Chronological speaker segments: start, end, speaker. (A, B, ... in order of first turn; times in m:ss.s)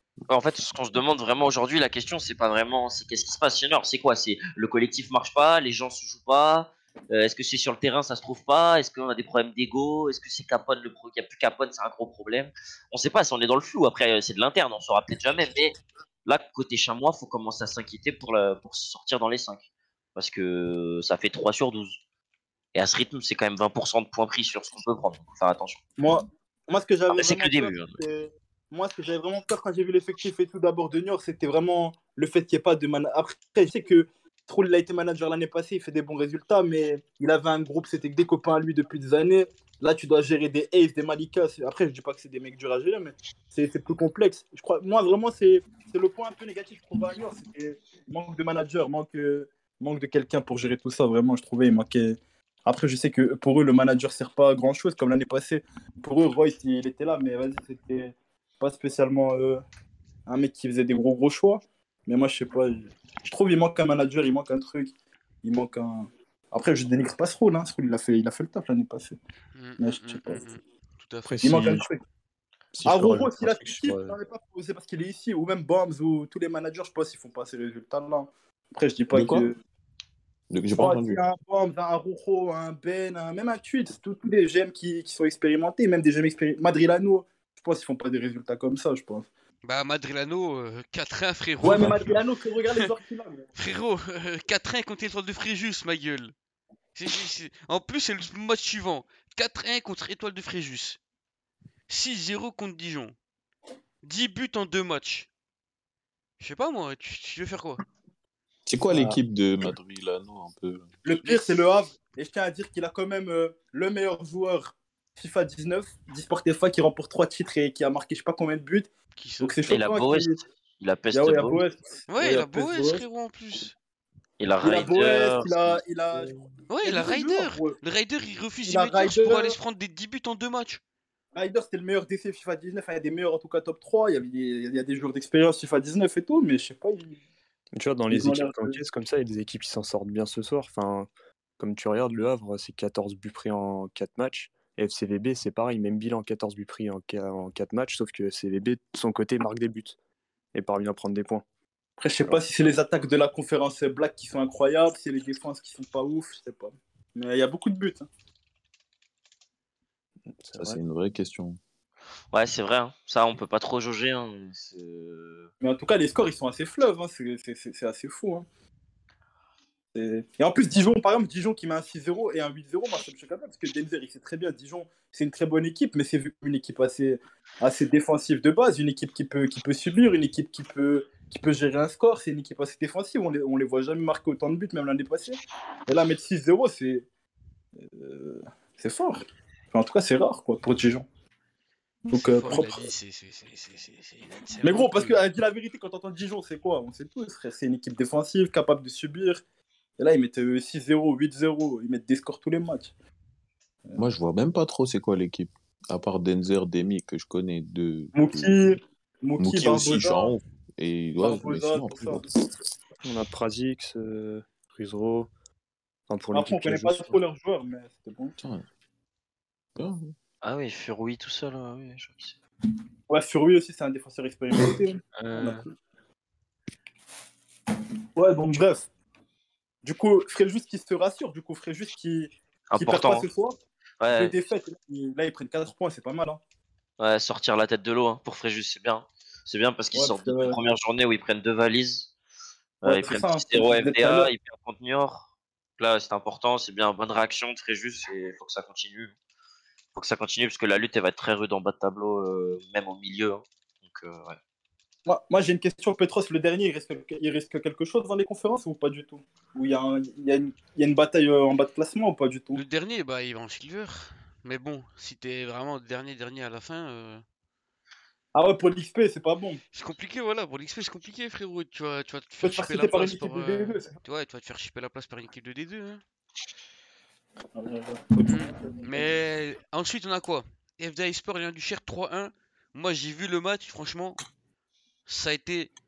0:00.3-0:19.6 A
0:20.2-0:22.0 A
0:22.7-0:25.8 A
0:26.0-0:59.6 B
0:27.1-0:28.0 A
1:00.3-1:09.2 B
1:09.5-1:11.4 C
1:09.8-1:10.4 B
1:11.4-1:11.8 D
1:11.4-1:12.0 B
1:12.7-1:14.1 E
1:12.8-1:19.6 B
1:19.1-1:19.5 E
1:20.5-1:21.2 E
1:20.8-1:29.3 B
1:29.6-1:32.2 C
1:31.6-1:33.5 B
1:33.6-1:36.3 C
1:36.9-1:41.0 C
1:41.9-1:43.1 C
1:44.0-1:45.3 C
1:46.4-1:47.8 C
1:48.6-1:50.9 E
1:48.9-1:49.2 D
1:51.0-1:58.9 B
1:51.2-1:51.6 C
1:59.2-1:59.6 C
1:59.4-2:00.4 B
1:59.7-2:01.6 A
2:01.1-2:03.0 B
2:02.1-2:03.8 C
2:04.4-2:05.8 A
2:04.6-2:07.8 B
2:06.7-2:10.8 C
2:08.6-2:09.6 B
2:11.3-2:17.2 B
2:17.8-2:30.0 D
2:18.1-2:18.8 B
2:30.5-2:31.4 D
2:32.0-2:38.1 B
2:40.4-2:40.8 D
2:40.6-2:41.6 E
2:42.3-2:45.5 A
2:45.6-2:48.4 B
2:49.9-3:07.0 B
3:07.8-3:11.0 B
3:12.1-3:12.9 B
3:12.1-3:15.2 C
3:14.6-3:19.4 B
3:20.0-3:22.9 B
3:23.9-3:28.6 E
3:28.1-3:30.3 B
3:29.4-3:32.3 E
3:31.2-3:32.2 B
3:33.0-3:35.3 D
3:36.1-3:37.2 D
3:36.3-3:38.3 B
3:38.4-3:38.6 E
3:39.8-3:40.1 E
3:40.4-3:42.4 A
3:43.1-3:45.6 B
3:45.2-3:45.6 A
3:48.2-3:48.9 B
3:49.8-3:53.6 B
3:52.7-3:53.2 A
3:54.0-3:54.3 A
3:54.1-3:56.4 B
3:57.0-4:02.1 A
3:59.9-4:00.6 B
4:02.8-4:09.1 A
4:02.8-4:04.3 B
4:09.9-4:14.4 A
4:15.0-4:22.6 B
4:22.5-4:27.2 C
4:28.3-4:29.6 B
4:29.7-4:36.0 C
4:32.4-4:33.9 B
4:37.5-4:39.1 B
4:38.2-4:44.2 C
4:45.0-4:45.7 C